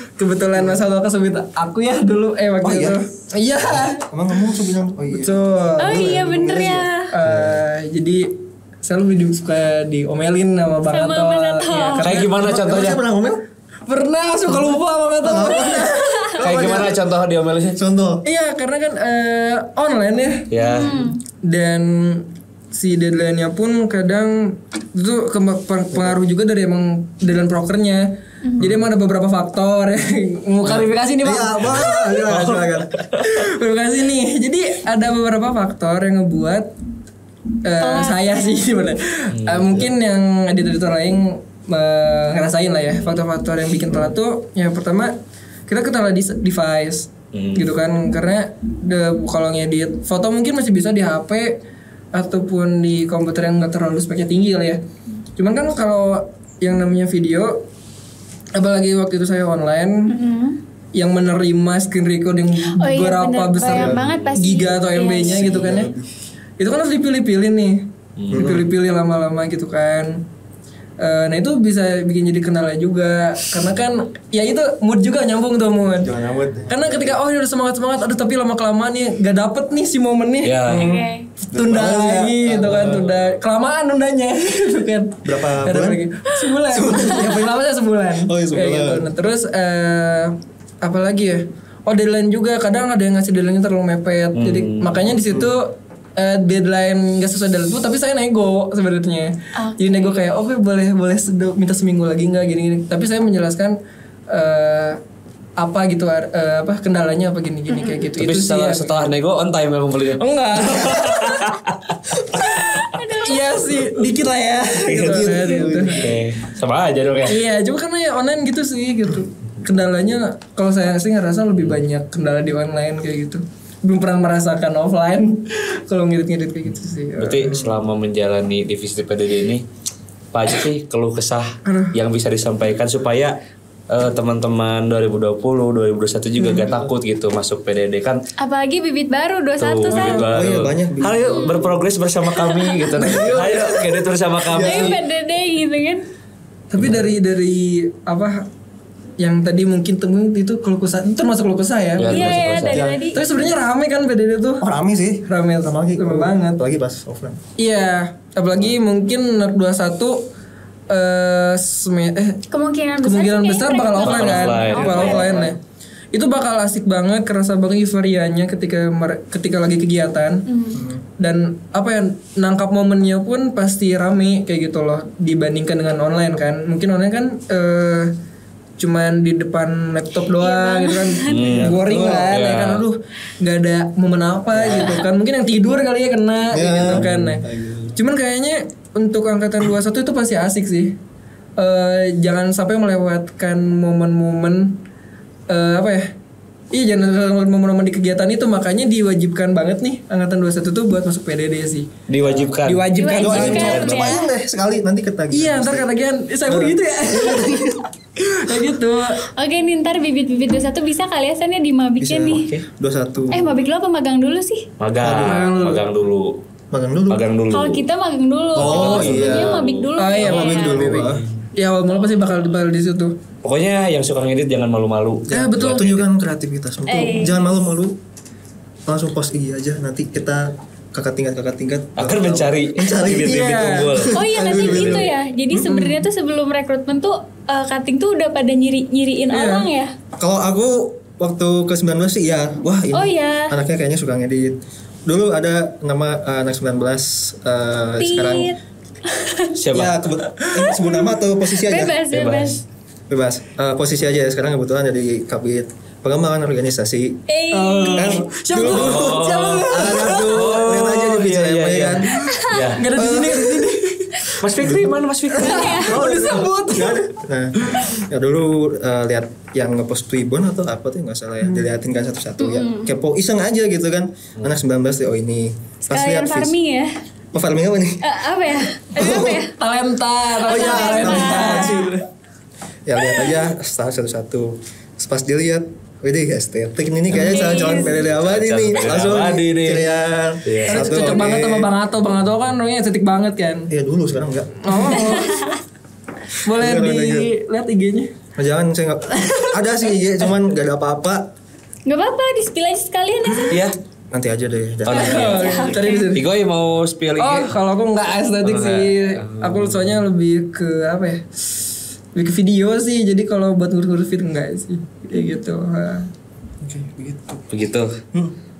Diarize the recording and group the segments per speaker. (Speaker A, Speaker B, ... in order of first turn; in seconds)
Speaker A: 0.2-4.0, 5.1-6.1, 7.1-12.4, 13.9-16.7, 18.2-32.3, 33.2-36.7, 37.6-45.1, 45.7-51.6, 52.1-54.8, 55.4-57.6, 58.5-60.1, 60.9-65.9, 66.6-70.2, 71.0-76.1, 76.7-80.7, 81.4-103.8, 104.3-105.0, 105.6-109.2, 110.2-111.5, 112.4-116.1, 117.3-127.5, 131.7-131.9, 136.4-136.7, 139.9-140.2, 142.9-143.9, 144.5-144.9, 146.7-148.5, 149.2-154.6, 155.3-156.6, 157.6-160.2, 160.9-162.4, 163.0-165.6, 166.1-170.4, 171.2-178.1, 178.8-191.0, 191.6-194.8, 195.5-196.1, 196.7-204.2, 205.3-209.3, 215.2-215.8, 220.0-223.2, 225.3-225.9, 233.0-233.9, 235.7-236.1, 239.3-239.7, 250.4-250.8, 257.5-260.4, 262.1-264.4, 265.4-268.0, 279.0-282.1, 290.7-293.7, 294.6-295.5, 296.4-298.1, 299.2-299.6, 304.9-306.2, 307.2-311.3, 312.1-316.1
Speaker B: 0.6-0.8, 2.6-3.0, 4.1-7.6, 12.4-13.4, 15.2-17.0, 17.8-18.2, 28.6-28.9, 31.2-33.1, 63.7-64.3, 65.2-66.1, 68.3-68.7, 76.0-77.2, 80.7-83.1, 85.2-86.0, 86.7-87.5, 88.2-89.1, 114.9-116.2, 127.5-127.8, 140.3-141.7, 143.1-143.7, 146.8-147.1, 152.7-153.1, 154.6-157.4, 165.1-165.4, 170.7-171.0, 181.8-182.3, 184.5-185.0, 186.5-188.0, 203.2-205.9, 206.5-207.9, 212.0-213.5, 215.0-215.5, 216.7-217.2, 218.6-219.6, 220.2-221.3, 225.3-228.0, 228.9-235.7, 240.2-248.5, 249.7-252.0, 253.1-257.2, 257.9-262.1, 262.9-263.7, 264.6-276.6, 277.3-278.0, 278.9-279.4, 280.4-282.0, 282.9-291.7, 293.7-295.2, 296.5-297.3, 298.4-301.3, 304.1-305.7, 316.6-317.5
Speaker C: 5.8-7.1, 10.9-12.1, 15.6-16.4, 20.6-21.2, 37.8-38.6, 60.1-60.6, 62.7-65.9, 80.8-81.3, 99.5-100.2, 112.9-113.6, 138.4-140.3, 141.3-141.6, 142.4-142.9, 144.5-146.1, 152.1-153.2, 162.5-165.5, 170.5-170.8, 180.4-181.6, 202.9-204.3, 209.4-212.5, 213.3-214.7, 217.5-220.8, 226.9-227.3, 234.1-239.9, 242.9-243.5, 248.0-248.6, 249.1-249.5, 251.5-252.6, 257.3-258.2, 262.1-262.7, 265.4-266.0, 272.4-272.9, 275.9-276.9, 278.0-279.6, 280.4-281.9, 283.0-283.3, 287.2-288.0, 295.2-295.6, 301.9-303.6, 305.0-306.1
Speaker D: 12.0-13.0, 16.4-17.8, 20.5-20.9, 31.6-33.4, 39.3-39.7, 47.3-47.7, 63.8-64.6, 68.2-68.6, 80.4-80.9, 82.6-83.1, 94.3-95.0, 108.2-113.0, 114.8-117.4, 127.2-129.7, 130.3-133.4, 133.9-138.2, 139.6-145.0, 152.0-152.8, 164.0-165.5, 181.3-182.8, 202.1-204.1, 214.8-216.4, 217.1-217.8, 218.6-219.9, 220.8-221.4, 223.4-226.0, 232.0-235.1, 249.6-249.9, 252.1-252.6, 258.6-263.0, 264.4-266.0, 287.8-289.9, 290.4-291.1, 304.9-307.5, 308.4-310.0, 317.5-317.9